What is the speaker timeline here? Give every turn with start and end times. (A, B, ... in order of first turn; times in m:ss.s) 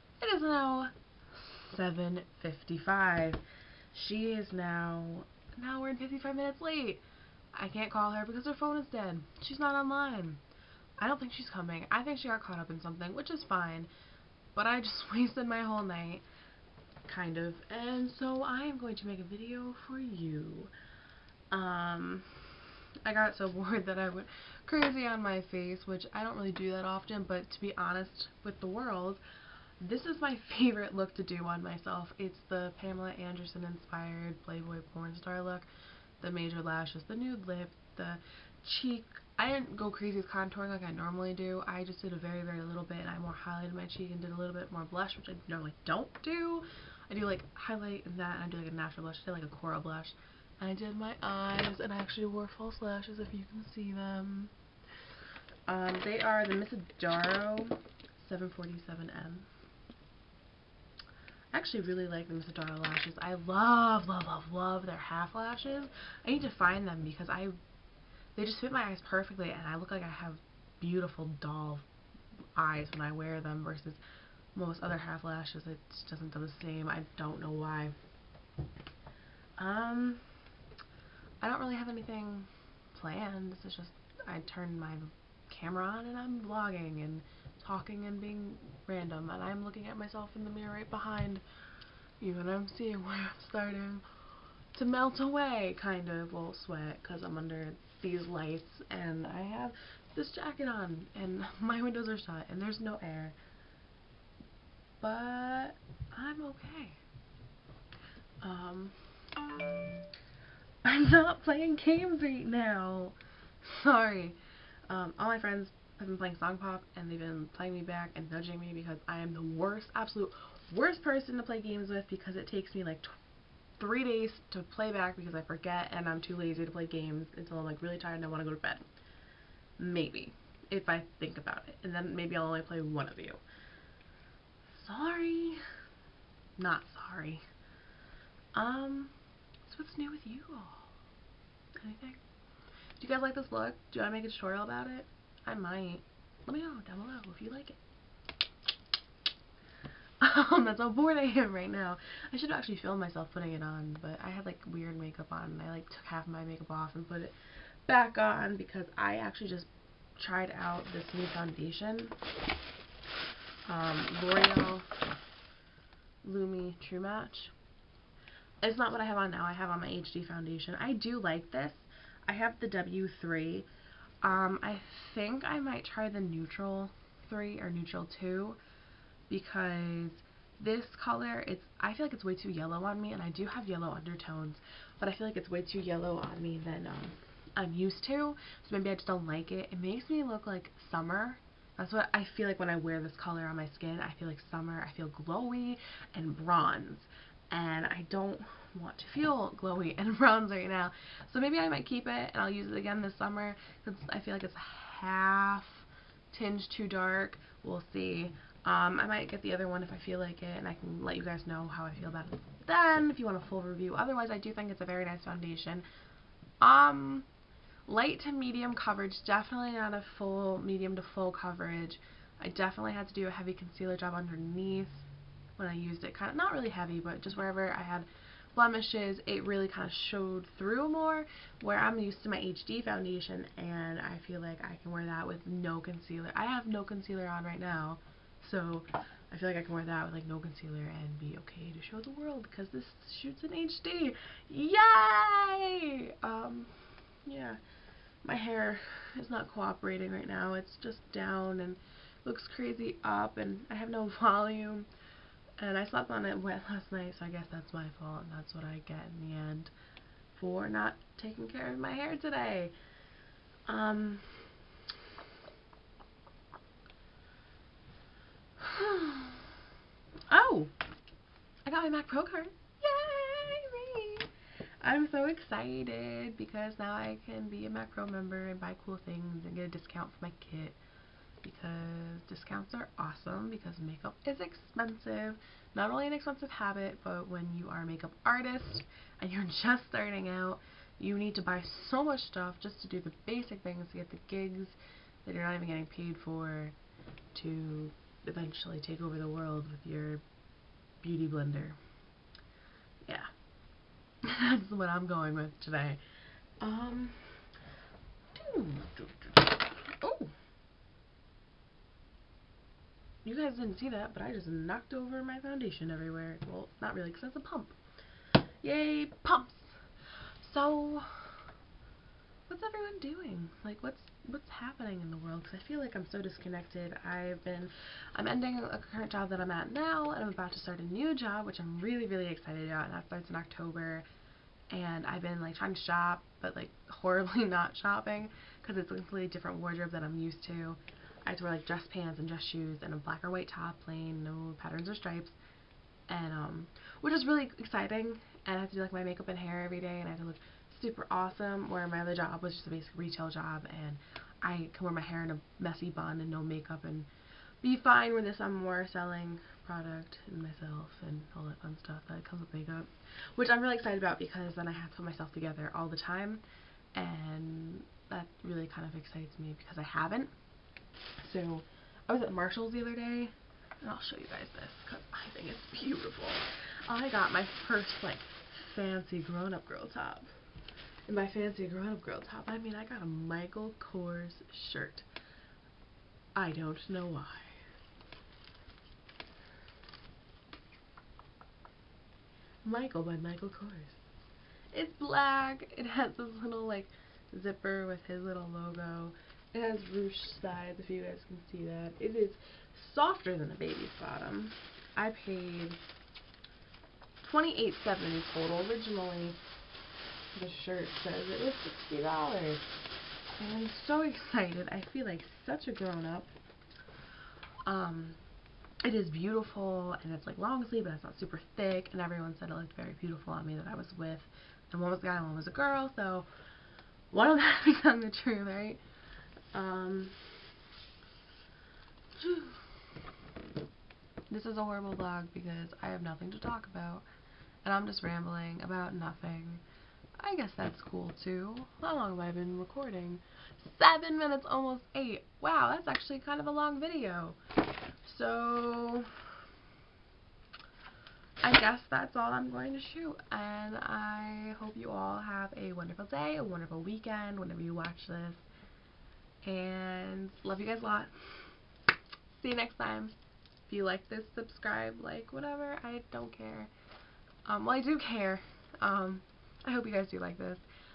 0:00.2-0:10.4 A
0:11.0-0:13.9 A
0:14.5-0:16.2 A
0:17.1-0:20.7 A
0:21.5-0:22.4 A
0:23.0-0:29.2 A
0:29.8-0:35.7 A
0:36.2-0:54.5 A
0:55.7-0:59.5 A
1:01.5-1:07.5 A
1:08.4-1:11.8 A
1:12.6-1:14.0 A
1:14.5-1:17.9 A
1:19.6-1:20.2 A
1:21.4-1:31.4 A
1:32.2-1:34.0 A
1:34.7-1:43.4 A
1:45.0-1:47.0 A
1:48.4-1:49.0 A
1:50.8-1:54.4 A
1:54.9-2:03.1 A
2:03.8-2:08.9 A
2:09.8-2:13.4 A
2:14.7-2:15.6 A
2:16.6-2:17.4 A
2:18.5-2:19.1 A
2:19.7-2:21.0 A
2:21.8-2:22.2 A
2:23.0-2:27.8 A
2:30.2-2:37.3 A
2:37.8-2:42.2 A
2:43.7-2:44.9 A
2:46.2-2:47.5 A
2:48.6-2:53.7 A
2:54.2-2:58.6 A
2:59.3-3:35.8 A
3:36.6-3:37.3 A
3:37.8-3:45.0 A
3:45.6-4:07.6 A
4:08.2-4:14.9 A
4:15.6-4:19.7 A
4:20.3-4:22.7 A
4:23.7-4:24.5 A
4:28.6-4:29.4 A
4:30.3-4:30.7 A
4:31.6-4:34.3 A
4:34.8-4:40.8 A
4:41.4-4:56.8 A
4:57.3-5:00.2 A
5:01.0-5:01.8 A
5:04.2-5:06.0 A
5:06.6-5:07.4 A
5:08.3-5:10.3 A
5:13.2-5:17.8 A
5:18.6-5:19.8 A
5:20.4-5:21.4 A
5:22.5-5:34.0 A
5:34.7-5:45.4 A
5:46.1-5:57.1 A
5:57.6-6:06.4 A
6:06.9-6:10.3 A
6:11.2-6:20.3 A
6:21.1-6:25.0 A
6:26.4-6:27.6 A
6:32.6-6:34.0 A
6:34.7-6:45.8 A
6:47.2-6:49.4 A
6:50.3-6:52.8 A
6:53.3-6:56.3 A
6:57.6-6:58.2 A
6:58.8-7:06.3 A
7:07.1-7:08.8 A
7:09.5-7:10.3 A
7:12.2-7:12.6 A
7:14.3-7:17.0 A
7:17.6-7:19.6 A
7:20.2-7:27.4 A
7:28.0-7:29.1 A
7:31.4-7:38.4 A
7:39.4-7:41.1 A
7:42.3-7:43.1 A
7:43.7-7:46.7 A
7:47.4-7:50.6 A